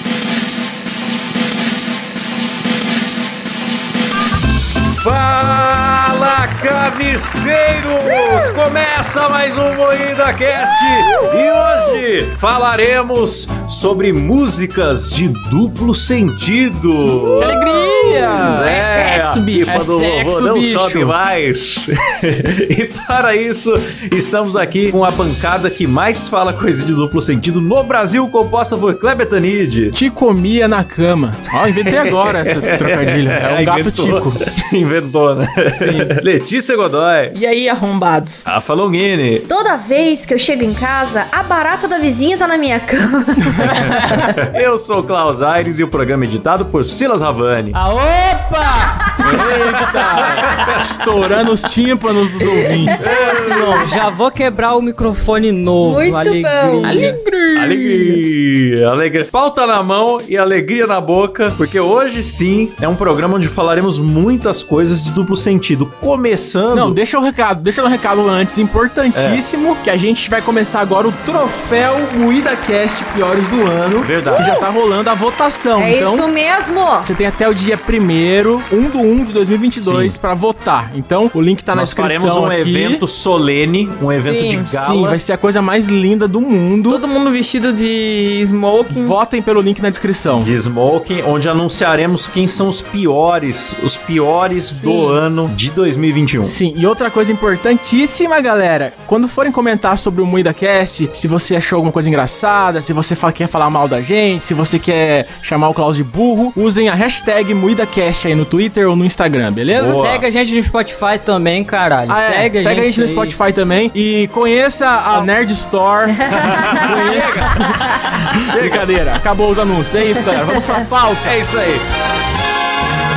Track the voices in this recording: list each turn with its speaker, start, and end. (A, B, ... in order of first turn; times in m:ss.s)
0:04.9-0:17.6 A
0:17.4-0:18.7 B
0:18.0-0:19.8 C
0:18.3-0:29.9 A
0:19.7-0:21.1 B
0:29.9-0:34.4 B
0:31.6-0:37.4 A
0:35.7-0:36.1 B
0:37.3-0:38.4 C
0:38.4-0:39.5 A
0:39.5-0:43.8 D
0:44.0-0:47.8 A
0:47.7-0:49.1 E
0:49.0-0:49.4 D
0:49.2-0:53.1 B
0:50.2-0:50.9 A
0:52.4-0:54.0 D
0:53.0-0:53.9 A
0:53.3-0:53.8 C
0:53.7-0:57.1 E
0:55.8-0:57.1 D
0:56.8-0:58.2 C
0:57.5-1:07.0 A
1:06.7-1:16.3 B
1:09.1-1:09.4 A
1:14.0-1:14.5 A
1:15.8-1:17.1 D
1:17.0-1:23.0 B
1:19.8-1:20.2 A
1:21.7-1:25.2 A
1:24.2-1:24.7 C
1:24.7-1:27.0 B
1:26.9-1:29.2 C
1:28.9-1:30.5 B
1:30.3-1:36.5 A
1:34.8-1:35.2 C
1:36.4-1:50.1 B
1:49.7-1:50.3 A
1:49.8-1:53.4 E
1:52.1-2:01.4 B
1:56.2-1:56.9 D
1:56.3-1:58.9 A
2:00.2-2:00.8 D
2:01.2-2:01.8 A